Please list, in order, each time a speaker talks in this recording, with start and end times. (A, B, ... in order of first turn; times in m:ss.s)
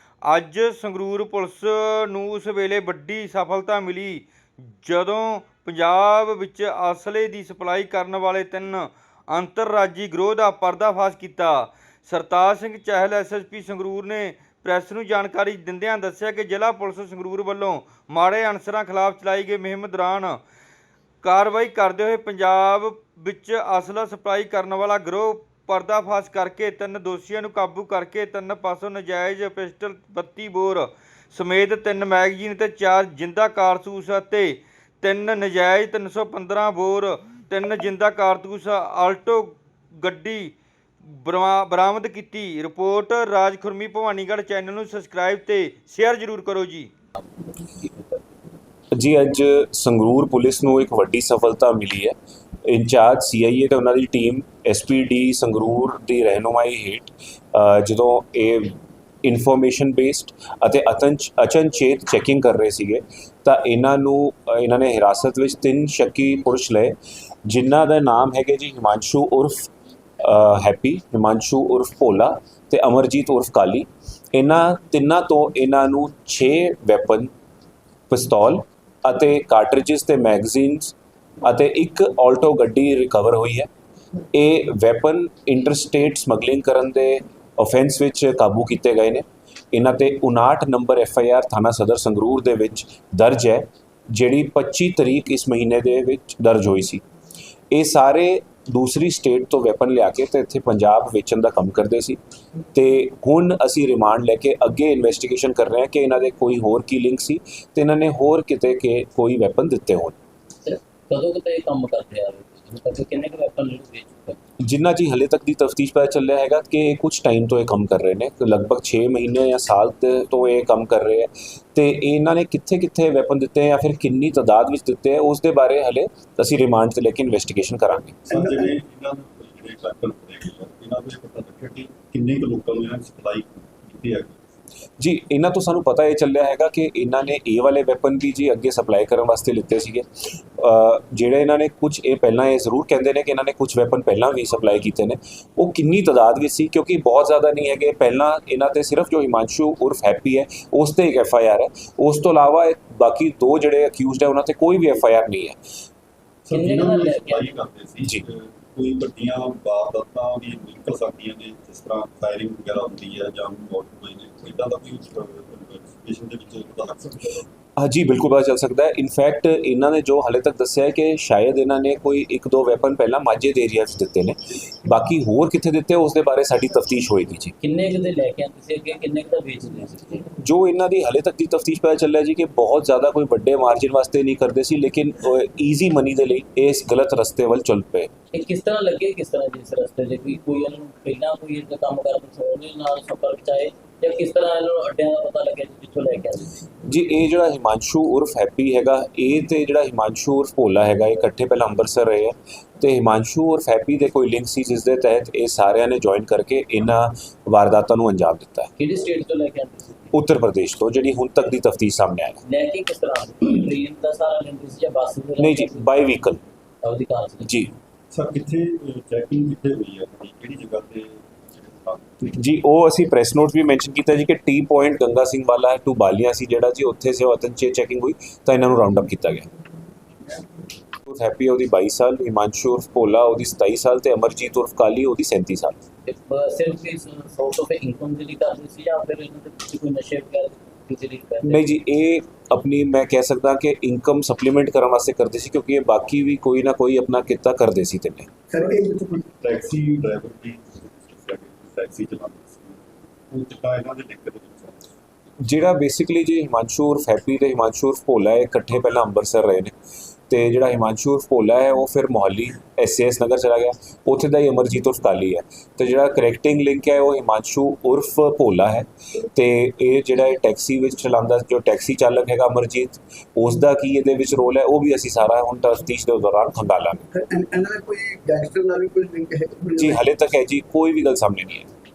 0:00.2-0:20.4 A
0:21.2-0:46.9 A
0:47.2-0:48.3 B
0:49.0-1:09.7 C
1:10.2-1:17.3 C
1:18.1-1:23.7 C
1:24.3-1:37.0 C
1:37.7-1:42.2 C
1:42.7-1:50.2 C
1:50.6-1:54.4 B
1:54.6-2:08.2 C
2:08.3-2:14.5 D
2:08.3-2:08.7 E
2:15.0-2:35.6 C
2:36.5-2:47.4 D
2:36.5-2:37.6 B
2:47.8-2:57.5 C
2:57.6-3:00.3 B
3:00.4-3:08.1 C
3:08.3-3:16.5 B
3:16.8-3:28.7 C
3:28.8-3:30.1 B
3:30.1-3:32.4 C
3:32.4-3:36.1 B
3:35.4-3:36.4 C
3:36.8-3:37.6 B
3:37.4-3:37.7 C
3:38.1-3:42.1 D
3:42.2-3:49.5 C
3:51.0-3:55.8 C
3:56.0-4:01.6 B
4:01.4-4:08.3 C
4:08.5-4:09.3 E
4:09.4-4:14.8 D
4:15.4-4:19.7 C
4:20.3-4:37.0 C
4:37.1-4:39.9 E
4:39.8-4:41.7 C